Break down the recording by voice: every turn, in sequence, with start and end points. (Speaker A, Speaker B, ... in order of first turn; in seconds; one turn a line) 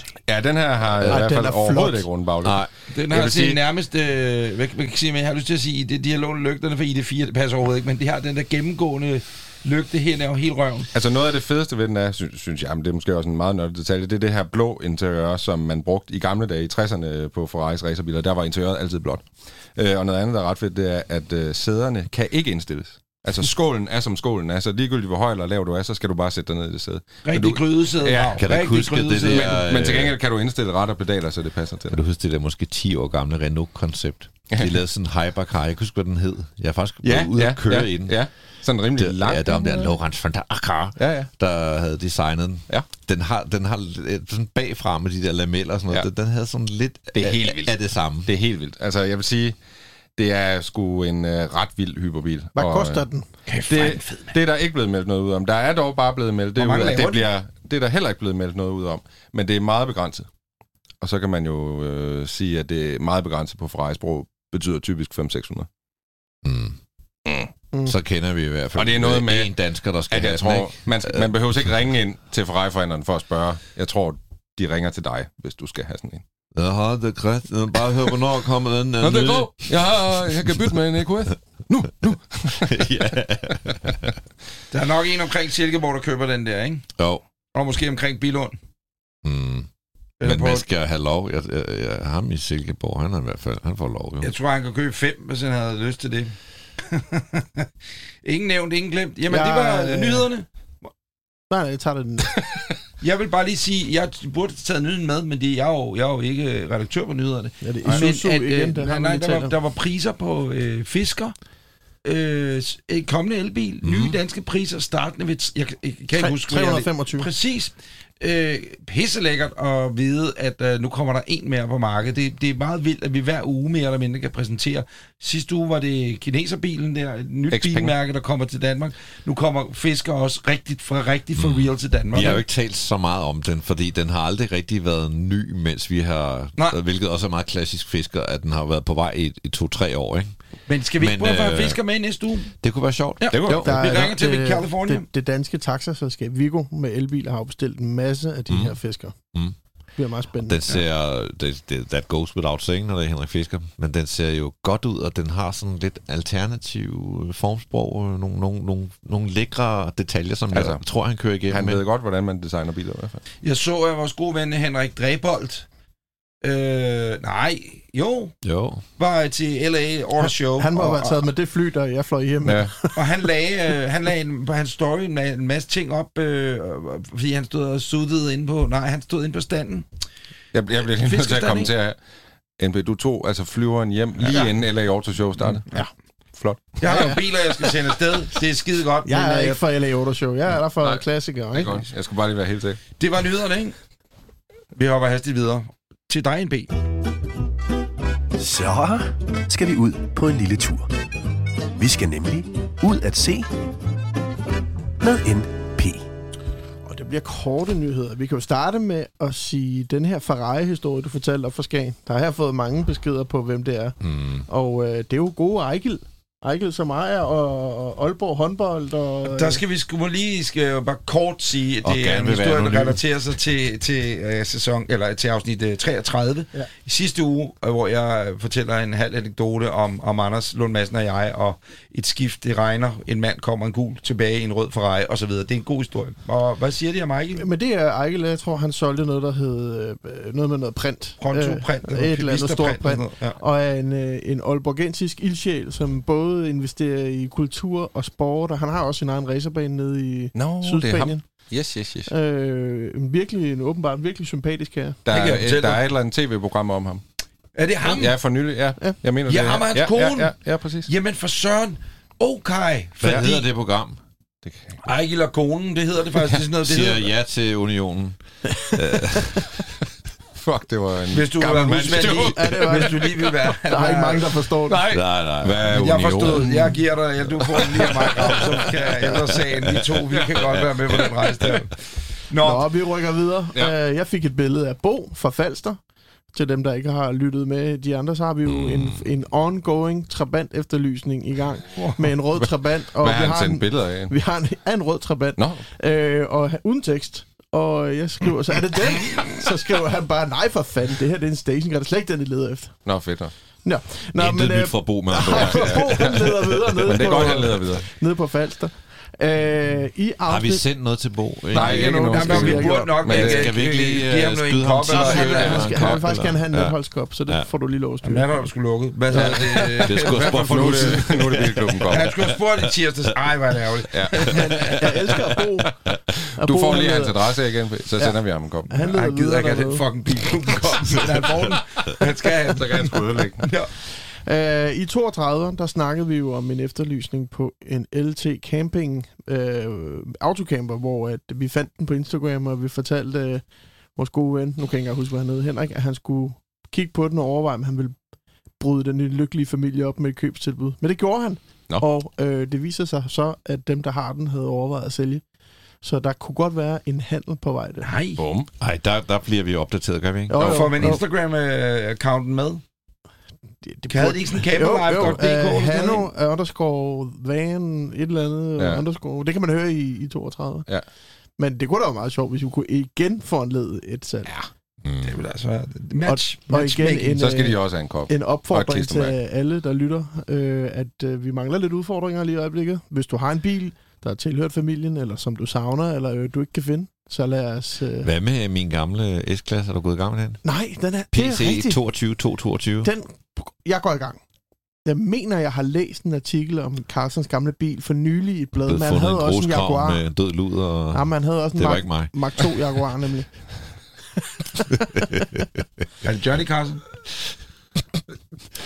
Speaker A: 0.3-3.6
Speaker B: 1.0-1.3
Speaker C: 1.1-2.1
Speaker B: 2.4-2.7
Speaker D: 2.9-10.9
Speaker A: 10.9-28.4
Speaker D: 27.2-29.5
Speaker B: 28.4-30.2
Speaker A: 29.2-32.0
Speaker B: 31.9-38.2
Speaker A: 37.0-39.9
Speaker B: 39.0-48.3
Speaker A: 41.0-41.3
Speaker A: 47.1-47.7
Speaker A: 48.3-49.6
Speaker A: 50.2-53.0
Speaker C: 52.6-53.3
Speaker D: 53.5-54.4
Speaker A: 53.6-60.3
Speaker D: 56.6-57.3
Speaker A: 61.0-65.7
Speaker B: 66.4-66.8
Speaker A: 67.3-67.5
Speaker B: 67.9-71.3
Speaker A: 68.8-69.5
Speaker A: 70.1-76.2
Speaker B: 76.6-79.7
Speaker A: 79.0-82.9
Speaker B: 82.6-84.1
Speaker D: 84.7-86.9
Speaker D: 87.5-88.6
Speaker B: 89.2-89.7
Speaker D: 90.2-90.7
Speaker B: 90.2-94.3
Speaker D: 94.2-96.3
Speaker D: 96.9-97.7
Speaker D: 98.2-100.5
Speaker C: 99.3-100.3
Speaker C: 101.5-102.3
Speaker A: 102.4-102.6
Speaker D: 103.0-111.3
Speaker C: 107.6-109.5
Speaker D: 112.0-132.4
Speaker B: 113.8-114.2
Speaker C: 116.2-117.3
Speaker A: 127.5-127.9
Speaker B: 131.4-140.4
Speaker D: 140.7-142.5
Speaker B: 141.0-141.8
Speaker B: 142.6-144.1
Speaker D: 143.2-145.1
Speaker A: 143.3-143.7
Speaker C: 143.6-149.2
Speaker B: 148.5-148.8
Speaker C: 150.0-150.8
Speaker B: 150.5-161.8
Speaker A: 160.5-160.8
Speaker A: 161.5-163.2
Speaker D: 163.4-165.7
Speaker D: 166.4-168.3
Speaker B: 168.4-168.8
Speaker D: 169.0-171.2
Speaker C: 170.2-173.0
Speaker A: 172.4-172.7
Speaker D: 172.9-179.9
Speaker A: 180.5-182.0
Speaker D: 180.9-181.7
Speaker A: 182.6-185.7
Speaker A: 186.3-187.2
Speaker D: 186.8-189.6
Speaker C: 189.1-191.8
Speaker A: 190.8-192.8
Speaker D: 193.0-193.8
Speaker D: 194.7-196.7
Speaker E: 198.4-200.9
Speaker E: 201.8-203.5
Speaker E: 205.0-206.1
Speaker C: 206.9-219.6
Speaker B: 214.0-214.4
Speaker D: 219.3-237.5
Speaker B: 221.8-223.0
Speaker C: 237.4-251.2
Speaker D: 241.2-243.4
Speaker A: 250.3-252.1
Speaker C: 252.1-255.0
Speaker A: 255.1-257.0
Speaker D: 255.1-255.8
Speaker D: 257.6-258.2
Speaker A: 257.8-260.9
Speaker D: 259.3-260.3
Speaker D: 260.9-263.4
Speaker B: 263.0-264.0
Speaker A: 264.5-264.8
Speaker D: 264.8-267.1
Speaker B: 266.6-268.2
Speaker C: 268.5-269.2
Speaker B: 268.7-269.6
Speaker A: 270.4-273.2
Speaker D: 271.1-274.4
Speaker C: 272.3-274.8
Speaker A: 274.7-279.1
Speaker B: 274.9-276.3
Speaker D: 275.7-281.8
Speaker B: 278.2-278.7
Speaker B: 279.4-281.1
Speaker A: 280.1-281.5
Speaker D: 282.3-282.7
Speaker C: 282.4-285.8
Speaker C: 286.3-302.8
Speaker B: 288.5-289.1
Speaker A: 292.4-294.1
Speaker A: 295.4-295.6
Speaker A: 302.9-303.3
Speaker C: 303.6-310.7
Speaker B: 304.2-307.7
Speaker A: 305.2-306.3
Speaker A: 306.8-307.9
Speaker B: 310.3-317.5
Speaker C: 311.5-313.0
Speaker A: 311.5-313.6
Speaker D: 311.6-315.8
Speaker C: 314.9-318.5
Speaker A: 315.5-316.0
Speaker D: 318.0-321.2
Speaker C: 319.1-319.6
Speaker A: 319.1-322.2
Speaker B: 319.2-322.7
Speaker D: 321.9-324.8
Speaker A: 323.9-325.2
Speaker C: 324.1-325.8
Speaker A: 326.1-328.7
Speaker C: 326.4-327.2
Speaker C: 328.0-329.9
Speaker D: 328.8-333.7
Speaker A: 332.5-333.5
Speaker C: 334.1-343.4
Speaker C: 343.9-348.0
Speaker C: 348.6-355.2
Speaker C: 355.8-357.9
Speaker D: 357.8-358.2
Speaker A: 358.2-358.5
Speaker B: 358.6-360.4
Speaker C: 360.3-361.0
Speaker D: 360.4-362.6
Speaker A: 360.4-360.7
Speaker C: 363.6-370.7
Speaker D: 363.9-366.1
Speaker A: 368.6-368.8
Speaker C: 371.4-374.3
Speaker B: 374.8-375.2
Speaker D: 375.0-377.2
Speaker C: 376.1-388.1
Speaker A: 377.2-379.1
Speaker B: 388.0-390.4
Speaker C: 390.4-391.8
Speaker B: 391.1-392.9
Speaker C: 392.8-394.2
Speaker C: 394.9-400.0
Speaker B: 398.7-402.7
Speaker C: 400.9-403.3
Speaker B: 405.0-405.5
Speaker D: 406.0-406.8